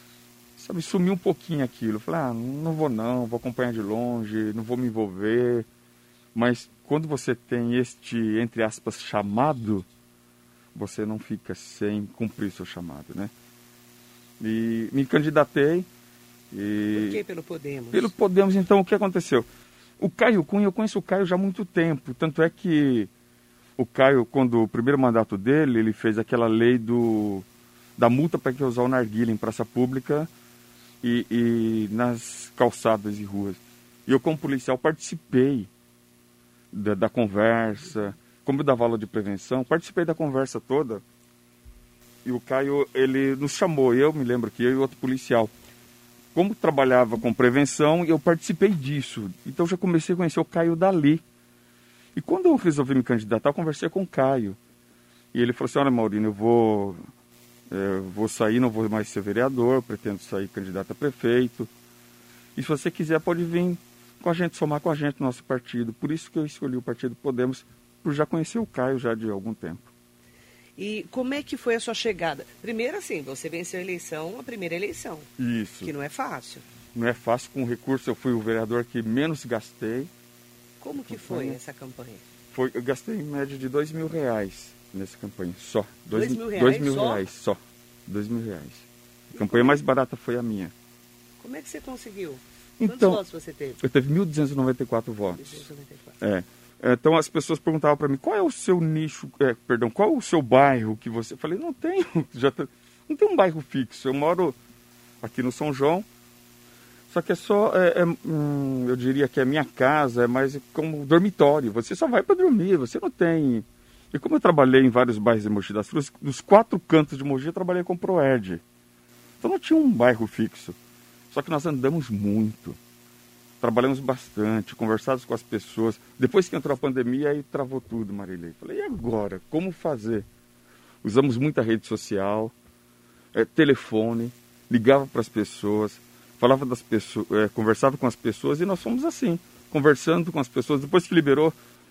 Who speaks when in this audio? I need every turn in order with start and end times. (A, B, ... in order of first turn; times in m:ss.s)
0:00.6-0:05.7 A
0:06.4-0:09.9 A
0:10.7-0:13.3 A
0:14.4-0:15.9 A
0:16.5-0:17.2 A
0:16.9-0:18.1 B
0:17.9-0:19.5 A
0:20.0-0:23.1 A
0:23.8-0:27.5 A
0:28.0-0:30.3 A
0:31.0-0:35.7 A
0:36.7-0:41.0 A
0:42.2-0:45.5 A
0:46.3-0:51.2 A
0:52.2-0:54.6 A
0:55.3-0:57.0 A
0:57.7-1:01.7 A
1:02.6-1:09.9 A
1:10.8-1:15.3 B
1:15.4-1:15.9 A
1:15.8-1:16.7 B
1:16.9-1:20.1 A
1:20.8-1:22.2 B
1:21.1-1:21.6 A
1:22.5-1:30.7 A
1:26.1-1:27.3 B
1:29.3-1:29.8 B
1:31.4-1:33.8 B
1:32.8-1:33.2 A
1:33.8-1:35.6 A
1:35.4-1:36.2 B
1:36.2-1:44.6 A
1:45.2-1:46.1 A
1:47.1-1:58.6 A
1:59.4-2:00.8 A
2:01.3-2:02.8 A
2:03.6-2:10.3 A
2:11.0-2:12.5 A
2:13.3-2:21.6 A